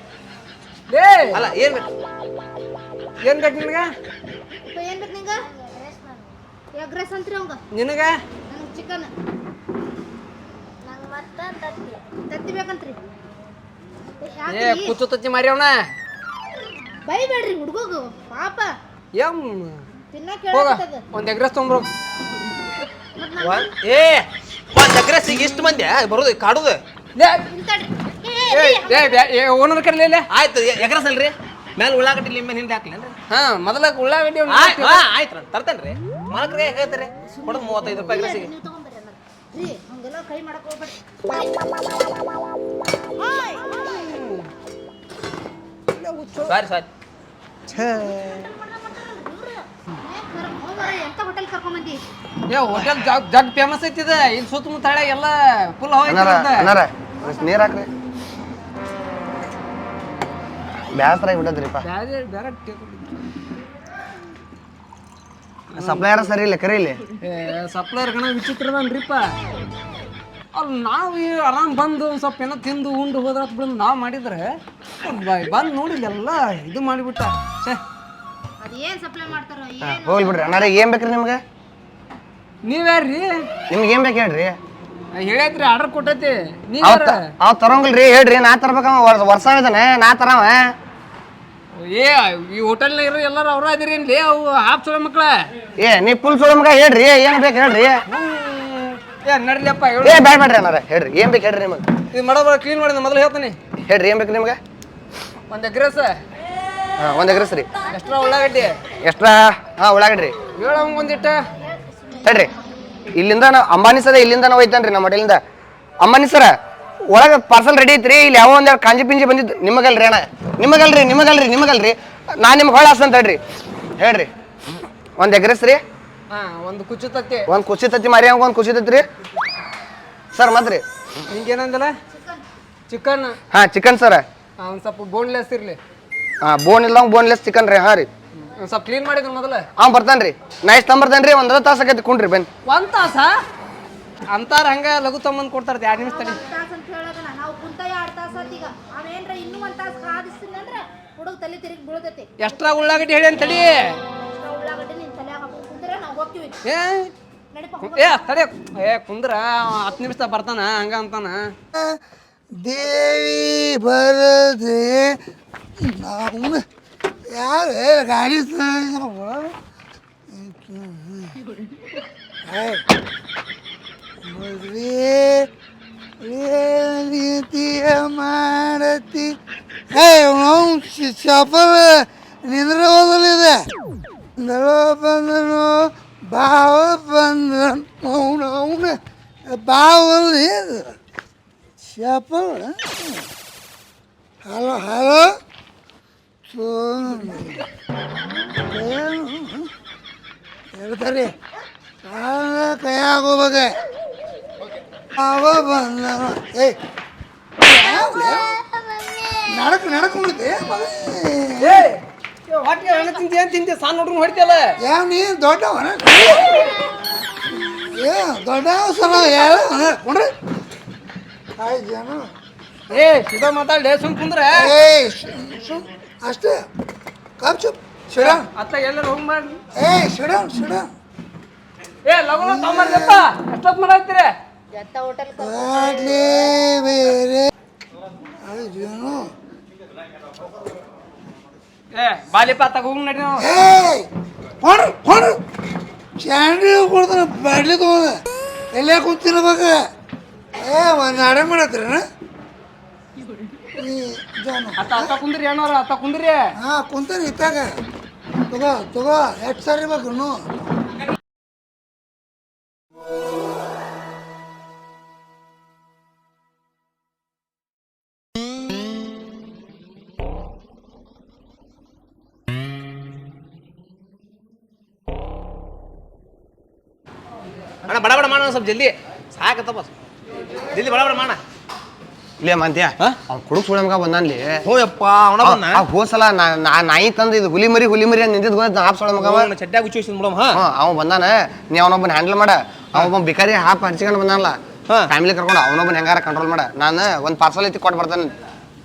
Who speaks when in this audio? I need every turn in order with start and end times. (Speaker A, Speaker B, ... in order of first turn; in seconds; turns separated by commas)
Speaker A: 0.9-1.4, Speaker B: 1.3-1.9, Speaker A: 3.2-3.9, Speaker C: 4.7-5.5, Speaker C: 6.7-7.6, Speaker A: 7.7-8.2, Speaker C: 8.5-9.1, Speaker C: 12.3-13.0, Speaker C: 14.2-14.9, Speaker A: 14.5-15.8, Speaker C: 17.0-18.7, Speaker A: 19.1-19.8, Speaker C: 20.1-21.0, Speaker A: 20.5-21.9, Speaker C: 23.2-23.5, Speaker B: 23.4-26.8, Speaker A: 27.1-27.4, Speaker C: 27.5-29.1, Speaker A: 28.5-30.2, Speaker B: 30.3-33.2, Speaker A: 33.3-35.0, Speaker B: 34.5-38.5, Speaker C: 38.1-40.9, Speaker A: 43.8-44.4, Speaker A: 45.9-46.5, Speaker B: 46.5-46.9, Speaker B: 47.7-48.3, Speaker C: 48.3-52.0, Speaker A: 52.5-56.7, Speaker D: 56.0-57.9, Speaker D: 60.9-61.8, Speaker A: 61.8-63.2, Speaker A: 65.7-66.0, Speaker D: 65.8-67.0, Speaker A: 67.2-69.3, Speaker A: 70.5-74.5, Speaker A: 75.0-77.8, Speaker C: 78.6-80.5, Speaker D: 79.8-81.4, Speaker A: 82.6-83.4, Speaker D: 83.7-84.6, Speaker A: 85.1-87.2, Speaker D: 86.8-90.7, Speaker A: 91.8-95.5, Speaker D: 95.8-98.0, Speaker A: 98.1-100.3, Speaker D: 100.0-101.9, Speaker A: 102.1-103.6, Speaker D: 103.9-104.6, Speaker A: 105.5-106.2, Speaker D: 107.0-107.7, Speaker A: 107.9-108.8, Speaker D: 109.0-110.3, Speaker A: 110.6-111.4, Speaker D: 112.2-112.5, Speaker D: 113.1-115.4, Speaker D: 116.0-116.5, Speaker D: 117.1-123.4, Speaker D: 124.0-124.3, Speaker D: 125.2-125.8, Speaker A: 126.3-127.5, Speaker D: 127.5-129.1, Speaker D: 130.3-130.8, Speaker A: 131.3-131.9, Speaker C: 132.1-132.4, Speaker A: 132.9-133.4, Speaker D: 133.5-134.2, Speaker A: 134.6-135.8, Speaker D: 136.4-138.1, Speaker A: 138.6-139.7, Speaker D: 139.8-142.5, Speaker A: 142.7-143.4, Speaker A: 144.3-146.4, Speaker C: 146.1-152.3, Speaker A: 152.4-153.9, Speaker C: 154.4-156.6, Speaker A: 156.6-157.1, Speaker C: 157.5-158.2, Speaker A: 157.8-161.5, Speaker E: 162.6-165.2, Speaker E: 165.8-166.6, Speaker E: 167.3-169.5, Speaker E: 170.3-171.4, Speaker E: 172.5-172.8, Speaker E: 174.2-175.5, Speaker E: 176.2-179.4, Speaker E: 179.9-183.7, Speaker E: 184.4-189.0, Speaker E: 189.5-190.9, Speaker E: 191.8-193.2, Speaker E: 194.4-195.3, Speaker E: 196.5-197.6, Speaker E: 198.7-199.7, Speaker E: 200.8-201.3, Speaker E: 202.0-203.7, Speaker E: 205.2-206.8, Speaker E: 207.6-208.6, Speaker E: 209.4-211.9, Speaker A: 211.6-214.7, Speaker E: 214.8-216.7, Speaker E: 217.6-220.3, Speaker E: 221.6-222.3, Speaker A: 222.9-224.7, Speaker E: 224.5-226.6, Speaker E: 227.4-228.4, Speaker A: 228.2-229.6, Speaker E: 229.8-230.9, Speaker A: 232.0-234.3, Speaker E: 232.4-233.2, Speaker C: 234.7-235.5, Speaker E: 235.4-237.5, Speaker E: 238.4-239.3, Speaker A: 241.9-243.5, Speaker E: 243.4-244.1, Speaker E: 244.6-245.4, Speaker E: 246.2-248.2, Speaker E: 248.7-249.8, Speaker E: 250.6-252.0, Speaker E: 253.7-255.1, Speaker A: 254.8-256.5, Speaker E: 256.6-257.6, Speaker E: 258.5-260.4, Speaker B: 277.9-279.9, Speaker B: 280.7-281.4, Speaker D: 282.4-284.6, Speaker B: 284.6-285.9, Speaker D: 285.4-289.5, Speaker B: 289.2-290.6, Speaker D: 290.5-298.3